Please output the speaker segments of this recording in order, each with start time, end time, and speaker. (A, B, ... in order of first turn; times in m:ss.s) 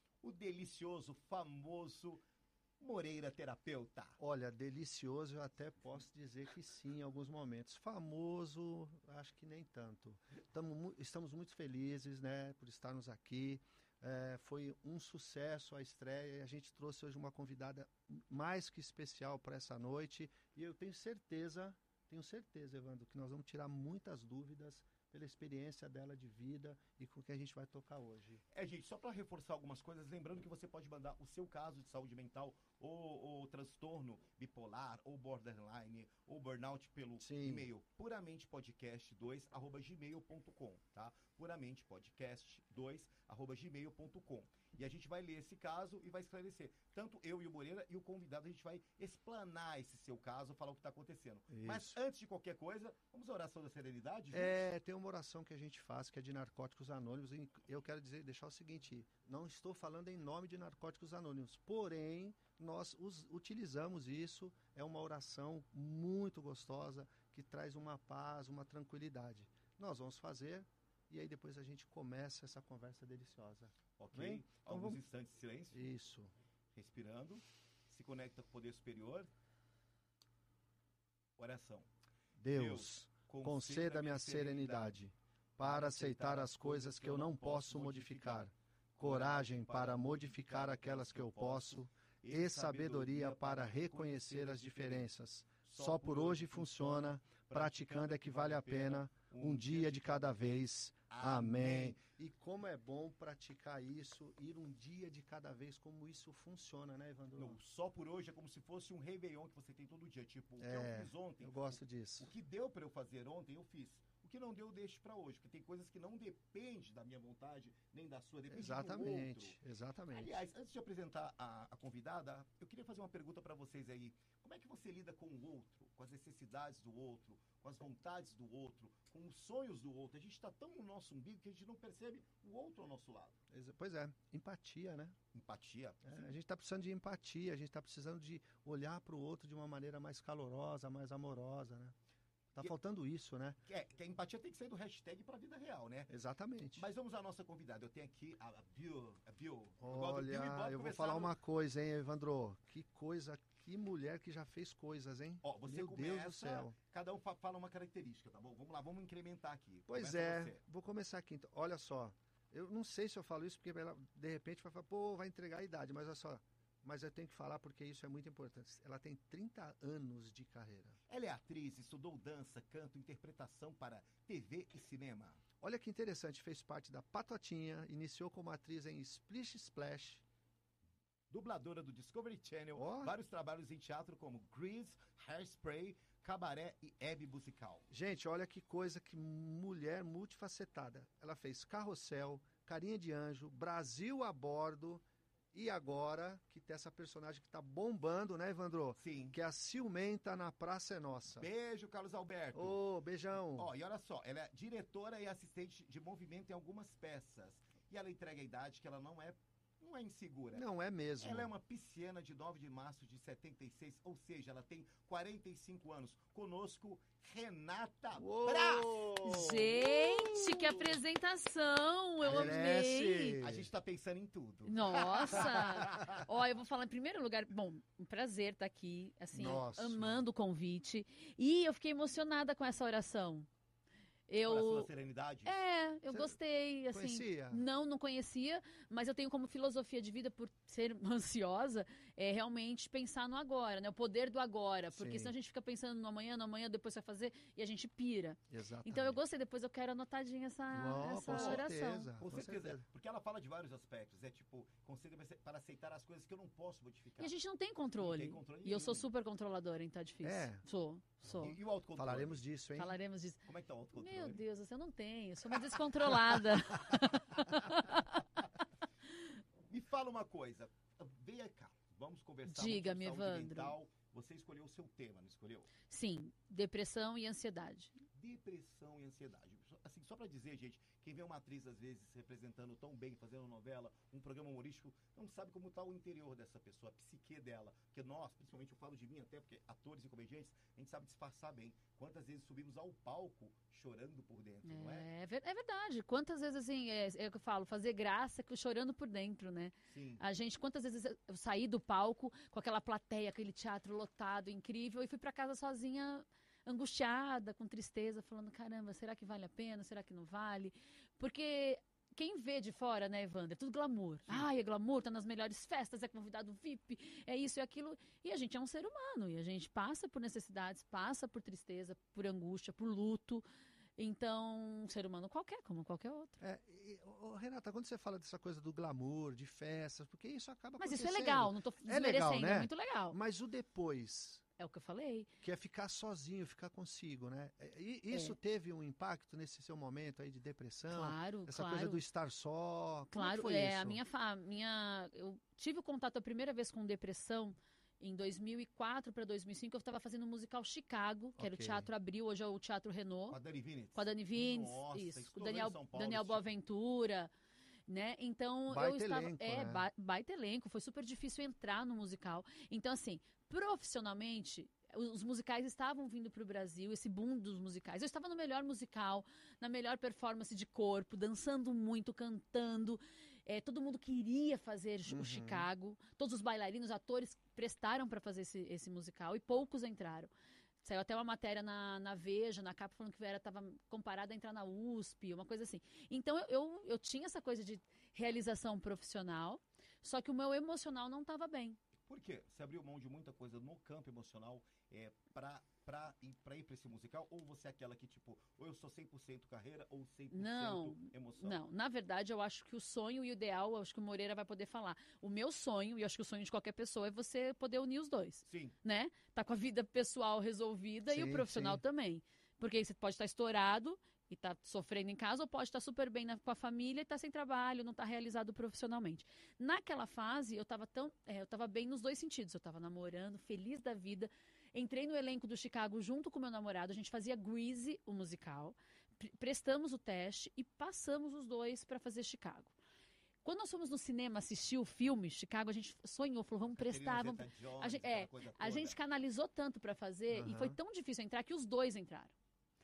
0:00.2-0:02.2 A
0:02.8-0:04.2 A
0:04.2-0:28.4 B
0:28.5-0:54.6 A
0:37.2-0:37.7 B
0:51.5-0:52.0 B
0:54.3-1:15.0 B
1:14.0-1:15.8 A
1:15.7-1:16.3 B
1:16.8-1:19.3 A
1:21.4-1:21.9 A
1:22.4-1:47.6 B
1:22.5-1:25.0 A
1:25.6-1:35.1 A
1:35.6-1:42.0 A
1:47.4-1:59.6 A
1:50.6-1:52.3 B
1:58.5-2:00.4 B
2:00.1-2:13.4 A
2:13.5-2:15.2 B
2:15.3-2:16.3 A
2:16.1-2:22.0 B
2:22.6-2:23.6 B
2:23.7-2:26.1 A
2:26.1-2:26.9 B
2:26.8-2:31.3 A
2:29.8-2:36.8 B
2:35.4-2:40.6 A
2:39.9-2:51.0 B
2:51.1-2:55.4 A
2:55.6-3:00.2 B
3:01.3-3:07.9 A
3:02.8-3:03.1 B
3:07.9-3:21.5 B
3:19.0-3:19.4 A
3:21.4-3:22.8 A
3:22.5-3:23.7 B
3:23.4-3:30.6 A
3:30.5-3:31.5 B
3:31.2-3:39.1 A
3:38.2-3:40.8 B
3:39.2-3:43.4 C
3:42.2-3:43.7 B
3:43.4-3:46.2 A
3:44.7-3:53.5 C
3:49.3-3:50.2 B
3:54.3-3:54.9 C
3:54.4-3:55.6 A
3:55.4-4:12.1 C
3:56.1-3:56.4 B
3:56.9-3:57.6 B
4:04.9-4:05.3 B
4:08.5-4:09.2 B
4:10.7-4:12.8 B
4:11.2-4:17.4 A
4:17.2-4:21.6 C
4:18.0-4:19.1 A
4:20.2-4:20.6 B
4:21.3-4:22.4 A
4:22.0-4:23.0 B
4:22.8-4:23.4 C
4:23.5-4:24.4 A
4:24.0-4:28.6 C
4:26.7-4:27.7 A
4:29.7-4:35.7 A
4:32.5-4:33.8 C
4:35.9-4:38.0 C
4:38.2-4:55.1 A
4:54.6-5:23.4 C
4:59.9-5:00.2 A
5:24.0-5:26.4 C
5:26.4-5:34.4 B
5:30.8-5:33.2 C
5:34.6-5:35.3 C
5:35.4-5:44.0 B
5:38.1-5:38.4 C
5:40.9-5:42.0 C
5:43.1-5:53.4 C
5:51.4-5:51.9 B
5:53.3-5:56.5 A
5:54.0-5:57.3 C
5:57.9-6:20.3 C
5:58.7-5:59.9 B
6:15.1-6:15.7 B
6:20.8-6:31.8 C
6:32.1-6:41.6 A
6:40.3-7:12.7 C
6:48.5-6:48.8 A
6:51.1-6:51.8 B
7:13.4-7:22.3 C
7:16.7-7:19.0 A
7:20.3-7:20.8 B